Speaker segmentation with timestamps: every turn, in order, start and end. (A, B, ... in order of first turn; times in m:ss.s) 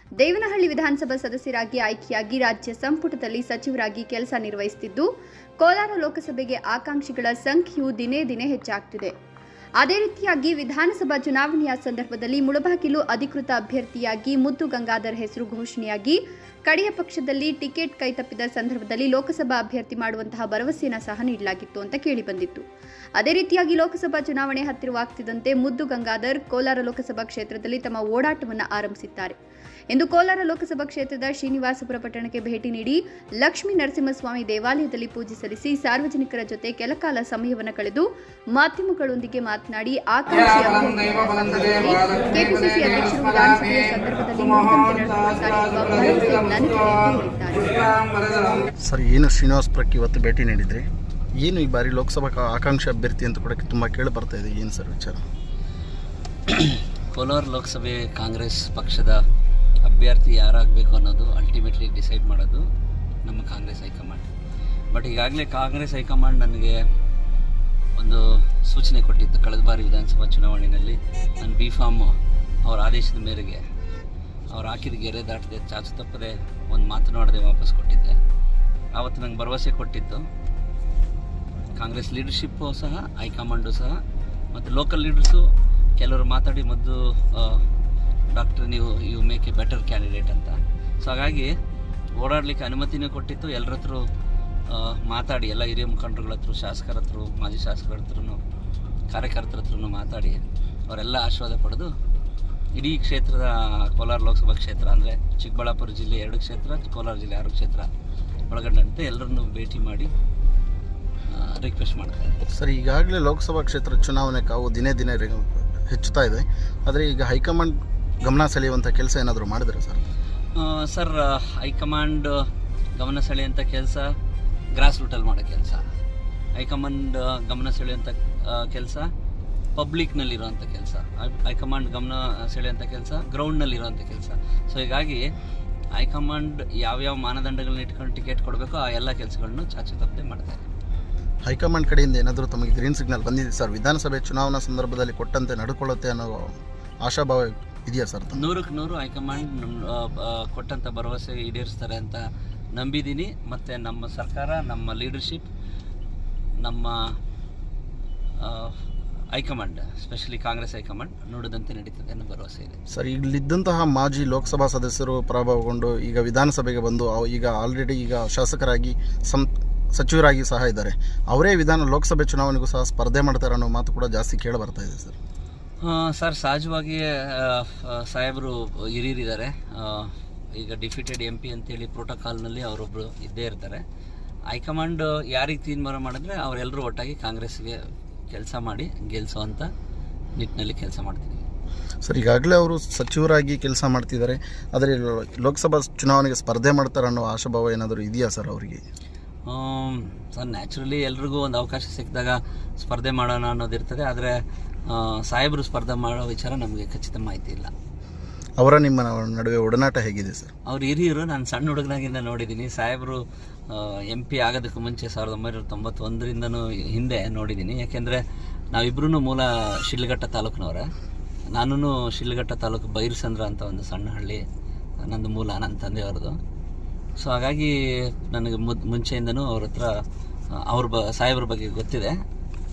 0:00.2-0:09.1 A
0:09.8-0:22.6 A
0:23.2-0:29.4 A
0:29.9-0:48.1 A
0:48.8-0:50.8 B
0:51.4-0:55.2 B
0:56.5-0:59.2 C
0:59.8-1:02.6 C
1:03.2-1:04.3 C
1:04.9-1:06.8 C
1:08.0-1:13.6 C
1:14.5-1:18.2 C
1:18.9-1:20.2 C
1:21.7-1:24.0 C
1:24.5-1:27.6 C
1:28.3-1:31.5 C
1:32.1-1:34.0 C
1:34.7-1:38.4 C
1:39.1-1:41.9 C
1:42.7-1:47.9 C
1:48.5-1:50.1 C
1:51.3-1:52.4 C
1:52.5-2:00.0 B
2:00.5-2:02.4 C
2:03.0-2:04.2 C
2:04.7-2:05.8 C
2:06.5-2:09.1 C
2:09.7-2:15.2 C
2:15.9-2:20.6 C
2:21.4-2:28.4 B
2:28.3-2:35.5 C
2:36.6-2:37.2 C
2:38.4-2:38.8 C
2:39.3-2:42.8 C
2:42.9-2:55.2 B
2:55.8-3:03.8 C
3:04.5-3:09.7 C
3:10.4-3:11.4 C
3:12.0-3:18.8 B
3:19.4-3:27.7 C
3:28.6-3:30.5 B
3:30.6-3:40.9 C
3:41.5-3:44.4 C
3:45.0-3:46.4 C
3:47.2-3:49.9 C
3:50.5-3:52.2 C